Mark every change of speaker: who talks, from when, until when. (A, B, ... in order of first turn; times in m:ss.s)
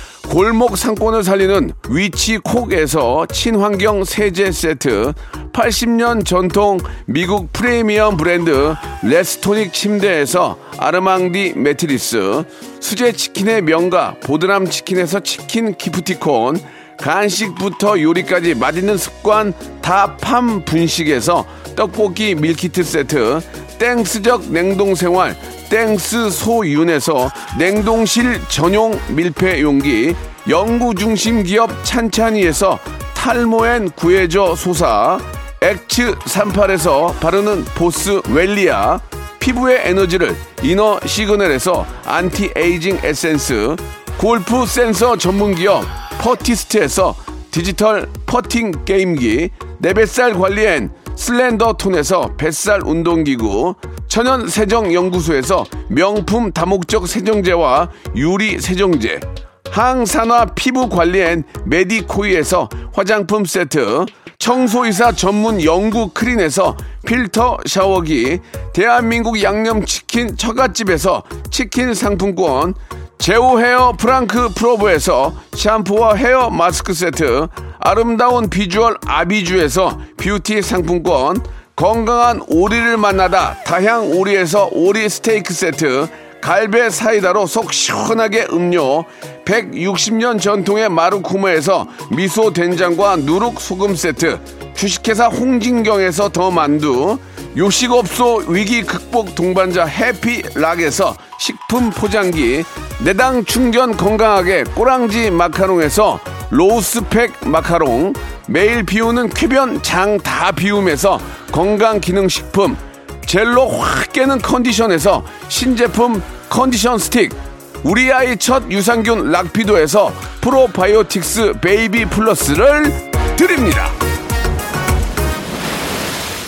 0:00.2-2:04.0 A